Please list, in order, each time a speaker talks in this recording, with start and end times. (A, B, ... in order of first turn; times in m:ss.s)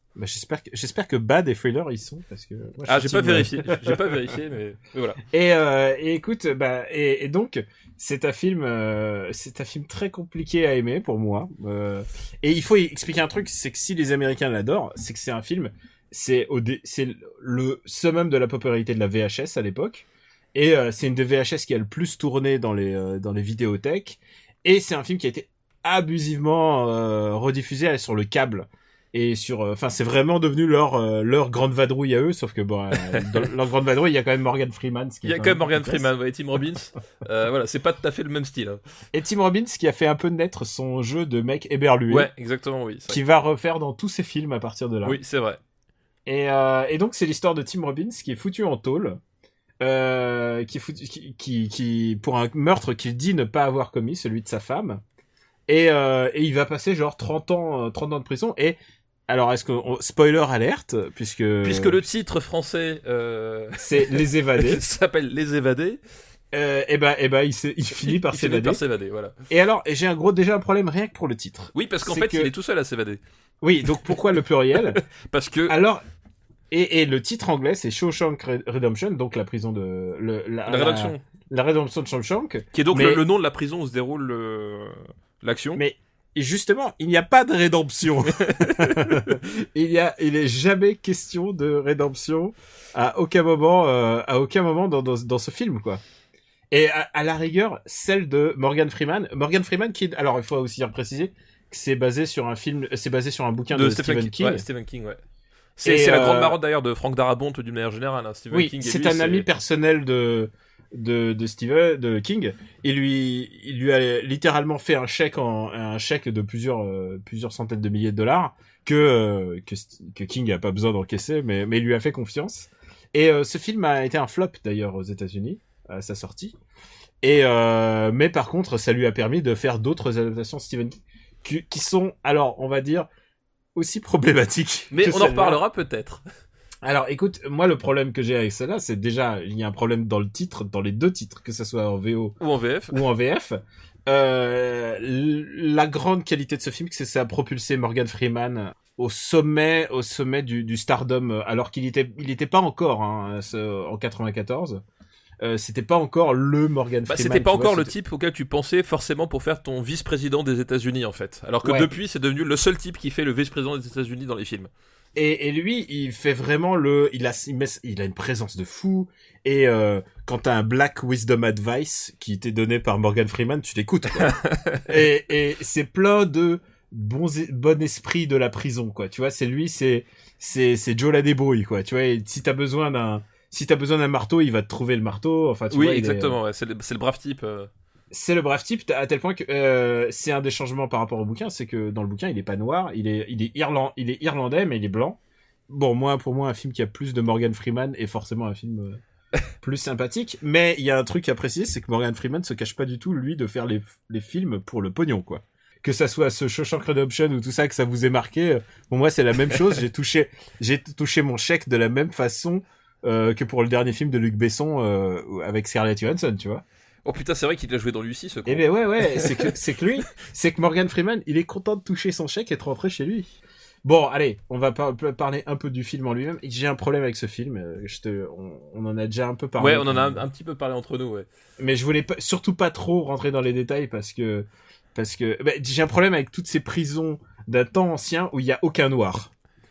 0:00.2-0:04.3 A
0:02.8-0:05.2 B
0:05.2-0:36.0 A
0:35.2-0:38.8 B
0:39.1-0:42.3 A
0:42.1-0:43.2 B
0:43.1-0:45.2 A
0:45.0-0:45.6 B
0:46.2-0:49.2 A
0:49.8-0:55.0 A
0:55.7-1:02.0 A
1:01.6-1:06.0 B
1:03.8-1:04.8 A
1:06.5-1:08.8 A
1:08.0-1:09.3 B
1:09.5-1:12.5 A
1:11.7-1:13.2 B
1:13.6-1:15.0 A
1:14.8-1:15.8 B
1:15.7-1:16.0 A
1:16.7-1:23.2 A
1:20.6-1:21.2 B
1:22.7-1:25.8 B
1:25.7-1:36.0 A
1:28.3-1:29.3 B
1:36.7-1:44.6 A
1:43.7-1:45.2 B
1:45.8-1:49.5 B
1:45.8-1:46.6 A
1:48.5-2:06.6 A
2:07.2-2:13.1 A
2:13.7-2:15.6 A
2:14.9-2:16.2 B
2:16.8-2:22.4 A
2:22.4-2:23.0 B
2:22.9-2:34.8 A
2:35.4-2:37.9 A
2:37.1-2:44.7 B
2:41.6-2:41.9 A
2:45.2-2:54.3 A
2:54.2-2:54.9 B
2:54.8-3:06.4 A
3:05.7-3:07.7 B
3:08.1-3:19.0 A
3:19.6-3:36.6 A
3:37.0-3:39.5 B
3:38.4-3:43.3 A
3:43.8-3:50.2 A
3:49.6-3:51.3 B
3:51.6-3:59.3 A